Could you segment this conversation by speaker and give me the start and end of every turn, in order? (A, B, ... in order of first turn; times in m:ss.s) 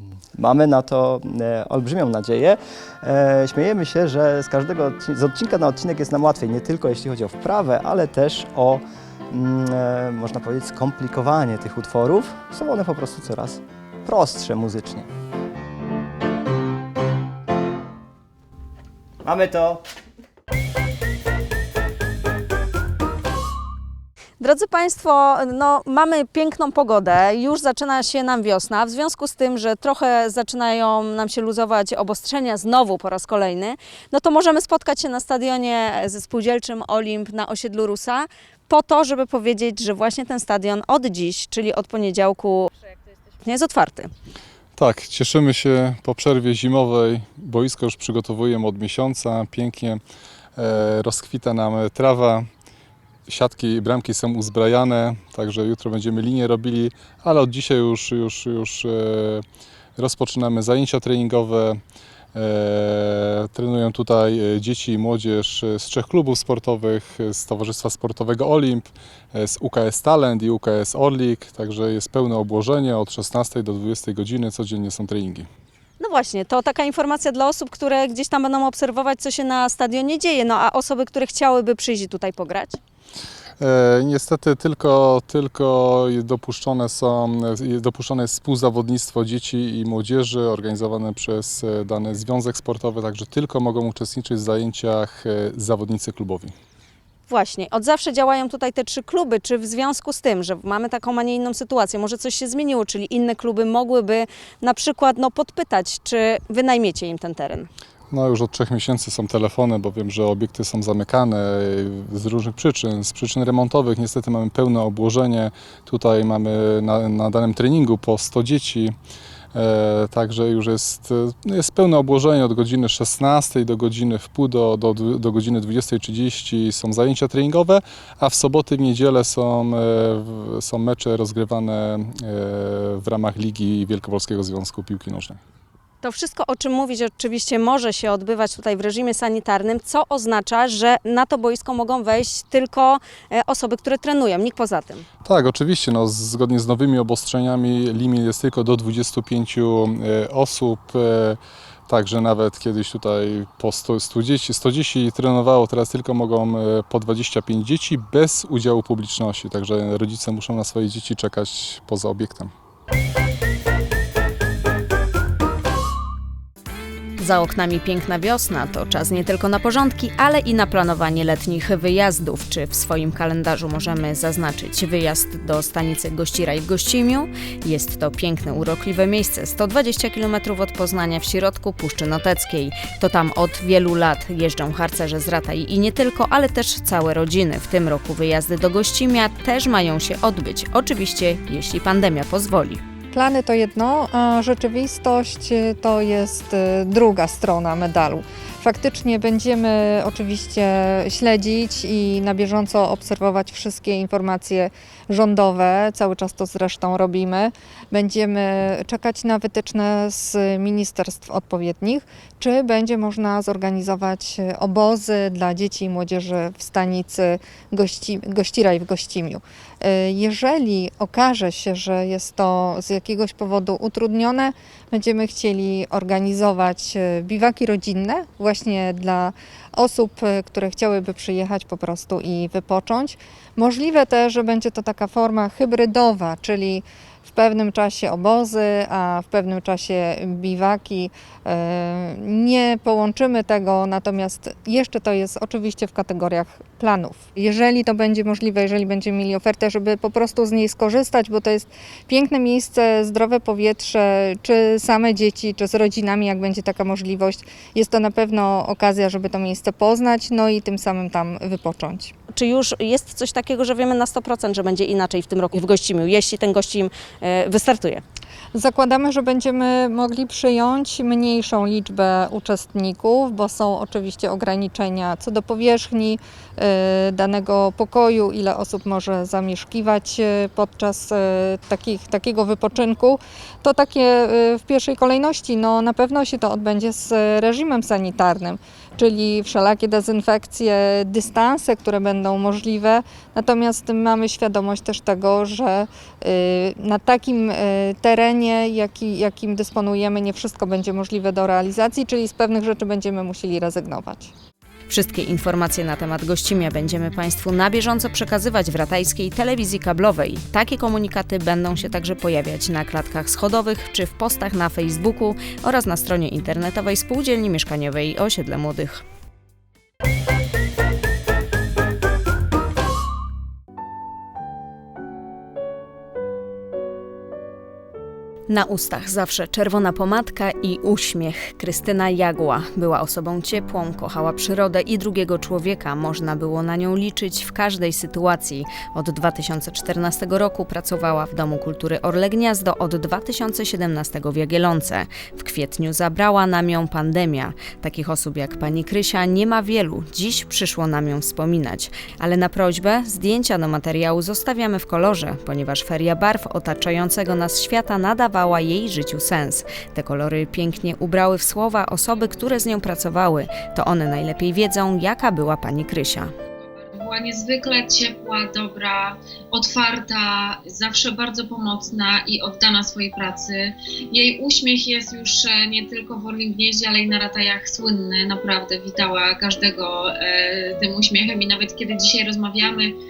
0:00.4-0:15.1 A
0:19.2-0:19.8 A
0:24.4-0:42.7 B
0:43.4-0:44.1 B
0:44.8-0:50.0 C
0:50.6-0:52.5 C
0:53.3-0:59.4 C
1:00.0-1:01.8 C
1:02.3-1:15.5 C
1:16.0-1:22.8 B
1:23.6-1:36.5 C
1:37.3-1:47.7 B
1:48.1-1:58.9 C
1:59.5-2:15.4 C
2:16.0-2:25.0 B
2:25.2-2:42.5 C
2:47.2-3:12.8 B
3:13.1-4:22.1 D
4:22.3-4:28.0 B
4:28.5-5:04.3 D
5:04.9-5:19.0 B
5:28.5-6:06.3 B
6:07.0-6:22.9 E